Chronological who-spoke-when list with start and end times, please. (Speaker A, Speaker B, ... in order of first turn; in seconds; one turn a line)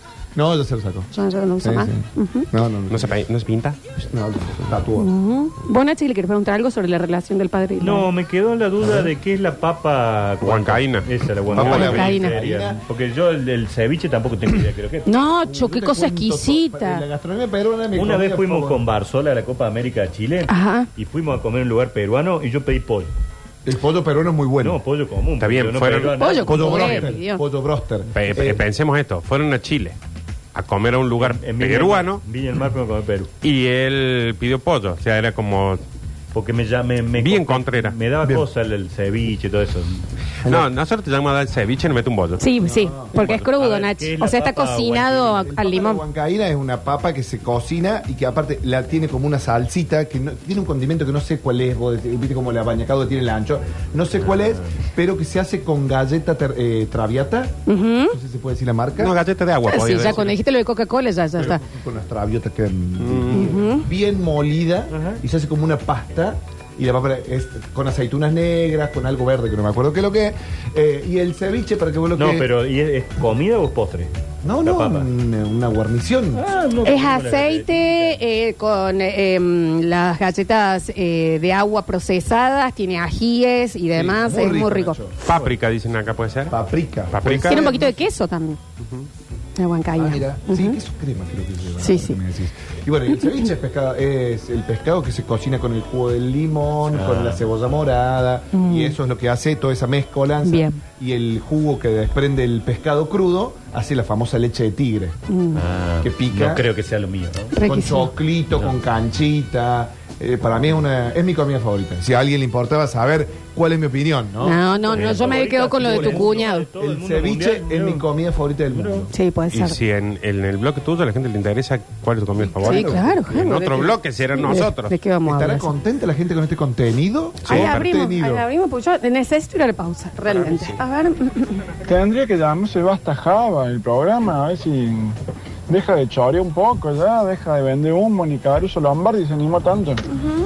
Speaker A: 0.3-1.1
Speaker B: 1.1-2.5
Speaker A: 1.6-3.2
Speaker C: 2.9-3.8
Speaker A: 4.0-5.1
Speaker B: 5.0-8.1
Speaker D: 7.8-15.1
Speaker A: 8.8-9.1
Speaker C: 10.4-12.0
Speaker A: 11.5-12.8
Speaker B: 11.7-12.3
Speaker B: 15.1-17.0
Speaker A: 15.4-18.8
Speaker D: 17.9-23.1
Speaker B: 20.5-20.9
Speaker A: 23.6-24.8
Speaker D: 24.6-27.1
Speaker C: 25.4-26.1
Speaker B: 26.2-27.4
Speaker A: 26.4-28.6
Speaker C: 28.1-30.0
Speaker C: 30.5-32.2
Speaker D: 31.2-33.3
Speaker C: 33.4-35.8
Speaker D: 36.3-40.1
Speaker C: 37.1-38.0
Speaker A: 40.4-40.7
Speaker C: 40.5-42.4
Speaker B: 42.4-46.0
Speaker A: 42.6-43.1
Speaker C: 43.1-43.4
Speaker D: 43.5-45.5
Speaker A: 45.5-57.5
Speaker D: 54.2-54.7
Speaker B: 57.7-58.1
Speaker A: 58.1-59.2
Speaker C: 59.0-60.3
Speaker B: 59.7-61.6
Speaker A: 59.9-60.2
Speaker A: 61.4-72.5
Speaker C: 63.0-63.5
Speaker B: 63.3-63.9
Speaker D: 64.9-65.2
Speaker D: 72.2-74.1
Speaker A: 74.4-76.4
Speaker D: 74.6-75.1
Speaker D: 76.3-78.2
Speaker B: 76.8-85.0
Speaker A: 83.9-85.4
Speaker C: 85.2-86.5
Speaker A: 86.5-87.9
Speaker C: 87.1-87.8
Speaker B: 87.5-88.6
Speaker C: 88.8-89.1
Speaker B: 89.6-90.8
Speaker A: 90.0-105.2
Speaker B: 91.8-92.2
Speaker D: 96.9-97.4
Speaker B: 98.5-98.9
Speaker B: 100.4-100.8
Speaker B: 105.3-105.6
Speaker D: 105.5-107.5
Speaker A: 106.0-106.7
Speaker B: 107.5-108.1
Speaker A: 107.5-119.1
Speaker B: 114.4-116.7
Speaker D: 114.8-118.0
Speaker D: 118.7-119.1
Speaker B: 119.1-119.8
Speaker C: 119.5-124.9
Speaker A: 122.4-123.9
Speaker B: 122.6-125.7
Speaker A: 125.2-128.4
Speaker C: 127.4-127.9
Speaker B: 127.4-131.6
Speaker C: 130.2-130.8
Speaker E: 131.8-135.2
Speaker E: 135.7-140.0